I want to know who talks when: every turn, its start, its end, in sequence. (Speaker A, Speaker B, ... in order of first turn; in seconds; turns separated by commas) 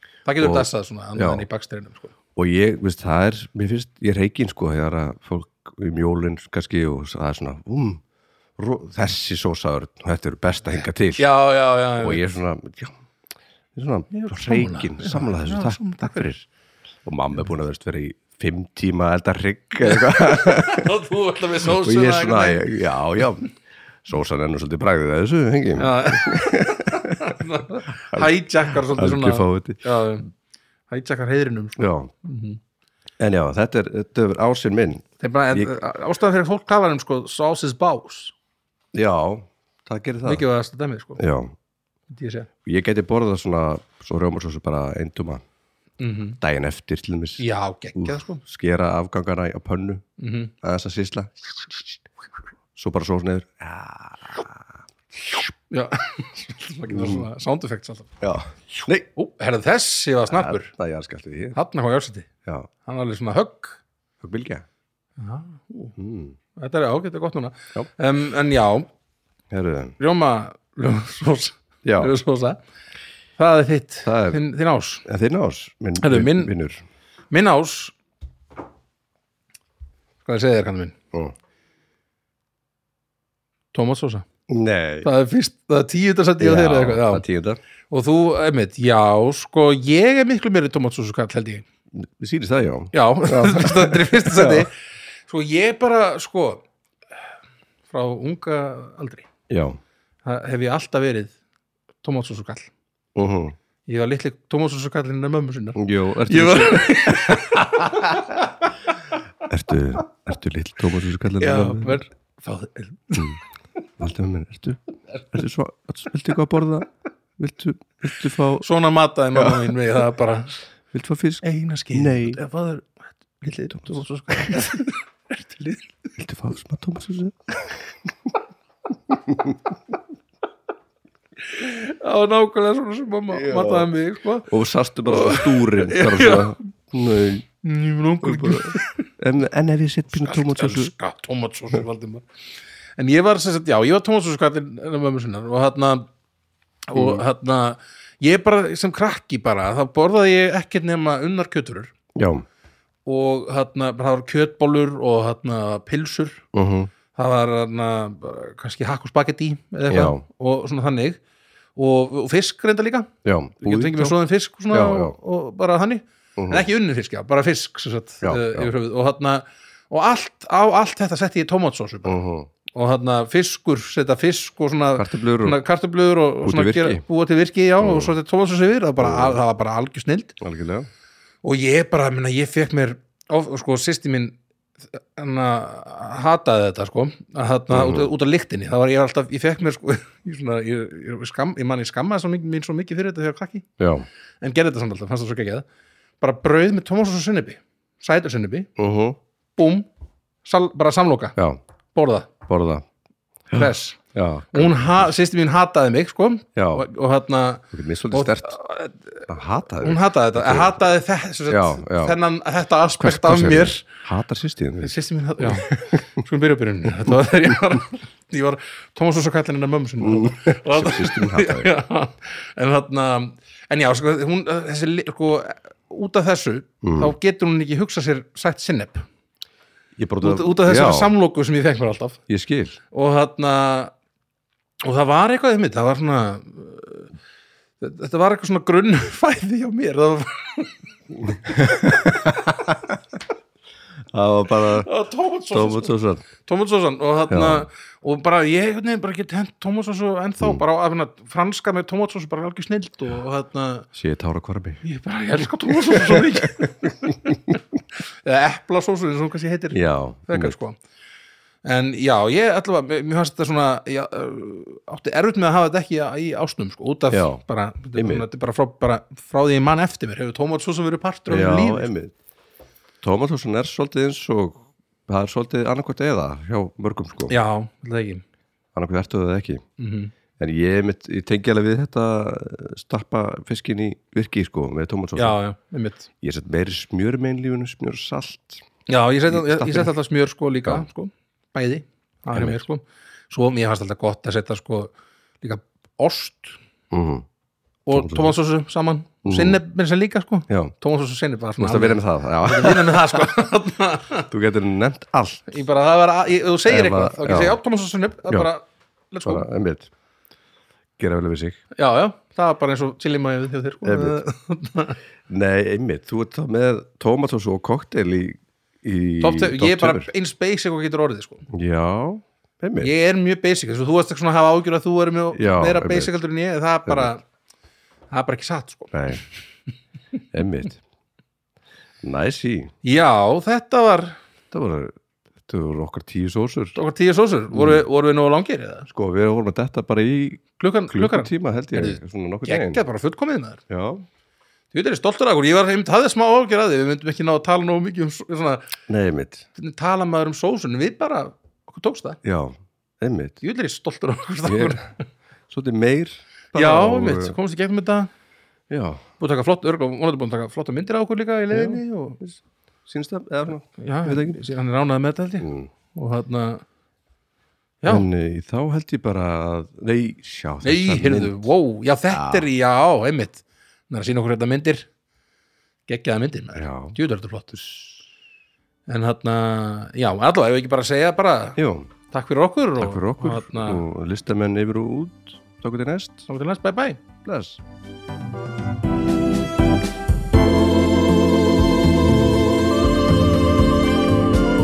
Speaker A: 0.2-2.1, Speaker B: 0.4-1.5, Speaker B: 2.4-8.0, Speaker B: 8.6-11.3, Speaker A: 11.2-12.3, Speaker B: 12.0-13.0, Speaker B: 13.7-16.5, Speaker A: 14.1-16.2, Speaker B: 17.1-20.9, Speaker A: 19.9-22.8, Speaker B: 21.6-23.5, Speaker B: 24.0-27.4, Speaker A: 25.8-30.3, Speaker B: 28.1-29.8, Speaker A: 30.9-32.6, Speaker B: 31.8-32.1, Speaker B: 33.2-35.7, Speaker A: 35.2-38.3, Speaker B: 38.9-40.4, Speaker A: 40.2-41.2, Speaker B: 41.2-41.5, Speaker A: 42.1-42.5, Speaker B: 42.6-45.4, Speaker A: 46.0-46.4, Speaker B: 46.4-50.0, Speaker A: 47.4-48.4, Speaker A: 50.2-50.5, Speaker B: 50.6-52.0, Speaker B: 52.8-54.7, Speaker A: 55.7-58.1, Speaker B: 56.9-57.3, Speaker B: 58.2-59.1, Speaker A: 58.8-60.7, Speaker B: 60.3-61.6, Speaker A: 61.5-62.3, Speaker A: 62.8-63.8, Speaker B: 64.2-64.7, Speaker A: 65.2-66.0, Speaker B: 66.0-66.4, Speaker A: 66.6-68.9, Speaker B: 69.5-70.0, Speaker A: 70.0-72.6, Speaker B: 71.8-72.2, Speaker A: 73.4-75.1, Speaker B: 74.0-74.4, Speaker B: 75.0-76.8, Speaker A: 76.0-76.5, Speaker A: 77.3-78.0, Speaker A: 80.2-81.0, Speaker A: 83.7-84.3, Speaker B: 84.5-85.1, Speaker A: 85.0-87.2, Speaker B: 86.4-87.6, Speaker A: 87.9-91.7, Speaker B: 91.9-94.7, Speaker A: 92.9-94.7, Speaker A: 95.3-96.7, Speaker A: 97.9-99.3, Speaker B: 99.5-99.8, Speaker A: 100.2-101.4, Speaker A: 102.0-102.7, Speaker B: 103.2-103.6, Speaker A: 103.9-108.7, Speaker B: 105.8-108.2, Speaker B: 109.5-112.0, Speaker A: 111.4-113.4, Speaker B: 114.0-114.8, Speaker B: 115.3-118.7, Speaker A: 118.6-120.6, Speaker B: 119.3-119.7, Speaker B: 120.9-122.4, Speaker A: 121.4-125.9, Speaker B: 123.7-124.0, Speaker B: 126.2-127.8, Speaker B: 129.3-129.6, Speaker A: 131.5-134.5, Speaker B: 133.3-133.9, Speaker B: 134.5-137.5, Speaker A: 135.1-136.6, Speaker A: 137.6-139.1, Speaker B: 138.2-140.9, Speaker A: 140.1-142.2, Speaker A: 143.0-146.1, Speaker A: 146.9-151.9, Speaker B: 146.9-147.2, Speaker B: 152.2-152.4, Speaker A: 153.1-156.4, Speaker B: 156.5-156.9, Speaker A: 157.2-161.2, Speaker B: 159.9-160.2, Speaker A: 161.8-163.1, Speaker B: 163.2-164.2, Speaker A: 163.6-180.4, Speaker B: 164.7-165.2, Speaker B: 166.4-166.7, Speaker B: 168.2-168.7, Speaker B: 172.1-172.5, Speaker B: 175.0-175.6, Speaker B: 176.4-177.0, Speaker B: 177.8-178.1, Speaker B: 179.0-179.4, Speaker B: 180.4-180.9, Speaker A: 181.4-184.4, Speaker A: 184.9-193.7, Speaker B: 187.7-188.1, Speaker B: 193.8-194.1, Speaker A: 194.4-195.7, Speaker A: 196.2-198.7, Speaker B: 198.8-199.2, Speaker A: 199.6-199.9, Speaker A: 200.4-201.4, Speaker A: 201.9-202.3, Speaker B: 202.5-202.8, Speaker B: 203.5-205.2, Speaker A: 203.5-204.0, Speaker A: 204.5-209.3, Speaker B: 206.6-206.8, Speaker B: 207.7-208.6, Speaker B: 209.3-210.8, Speaker A: 209.8-213.8, Speaker B: 211.5-212.2, Speaker B: 213.0-216.0, Speaker A: 214.8-229.1, Speaker B: 220.0-221.7, Speaker B: 226.8-227.2, Speaker B: 230.0-231.1, Speaker A: 230.2-232.2, Speaker B: 232.3-232.8, Speaker A: 232.9-233.9, Speaker A: 234.8-237.1, Speaker A: 237.8-240.7, Speaker B: 241.2-243.0, Speaker B: 244.1-244.9, Speaker A: 244.7-253.9, Speaker B: 245.5-246.2, Speaker B: 247.3-247.7, Speaker B: 253.9-254.8, Speaker A: 254.8-257.4, Speaker B: 255.7-256.6, Speaker A: 258.2-260.8, Speaker B: 259.7-260.6, Speaker A: 261.6-271.9, Speaker B: 267.1-267.4, Speaker B: 267.9-268.3, Speaker B: 271.3-272.1, Speaker B: 273.0-277.4, Speaker A: 277.3-278.2, Speaker B: 278.8-279.6, Speaker A: 279.8-280.1, Speaker B: 280.4-285.4, Speaker A: 285.2-286.1, Speaker B: 286.2-288.6, Speaker A: 288.9-296.6, Speaker B: 289.3-289.9, Speaker B: 292.3-292.6, Speaker B: 296.9-297.3, Speaker A: 297.9-304.3, Speaker B: 297.9-298.3, Speaker B: 299.2-299.6, Speaker B: 300.5-300.7, Speaker B: 301.6-303.4, Speaker B: 304.3-305.6, Speaker A: 305.5-309.5, Speaker B: 306.7-307.6, Speaker B: 309.2-309.9, Speaker B: 311.0-311.6, Speaker A: 311.8-315.0, Speaker B: 313.8-314.2, Speaker B: 315.3-320.1, Speaker A: 319.2-321.5, Speaker B: 321.5-322.9, Speaker A: 322.8-327.2, Speaker B: 325.3-326.1, Speaker B: 326.9-327.1, Speaker A: 328.1-329.3, Speaker B: 328.9-329.2, Speaker B: 330.3-330.8, Speaker B: 332.0-332.7, Speaker A: 332.8-334.2, Speaker B: 334.5-336.8, Speaker A: 336.8-338.9, Speaker B: 337.5-337.9, Speaker B: 338.9-342.8, Speaker A: 340.6-343.6, Speaker B: 343.7-344.0, Speaker A: 344.7-348.7, Speaker B: 348.9-349.5, Speaker A: 349.6-352.2, Speaker B: 352.2-353.4, Speaker A: 353.4-354.9, Speaker B: 354.4-354.9, Speaker B: 355.5-357.4, Speaker A: 356.5-358.1, Speaker B: 358.7-359.0, Speaker A: 359.2-362.2, Speaker B: 361.5-364.4, Speaker A: 363.8-366.6, Speaker B: 365.4-365.7, Speaker B: 367.9-371.5, Speaker A: 370.6-374.9, Speaker B: 372.1-372.5, Speaker A: 375.9-377.5, Speaker B: 376.6-377.0, Speaker B: 377.5-378.0, Speaker A: 378.9-381.6, Speaker B: 381.6-381.9, Speaker A: 382.1-383.9, Speaker B: 382.8-386.3, Speaker A: 386.3-387.0, Speaker B: 387.2-387.6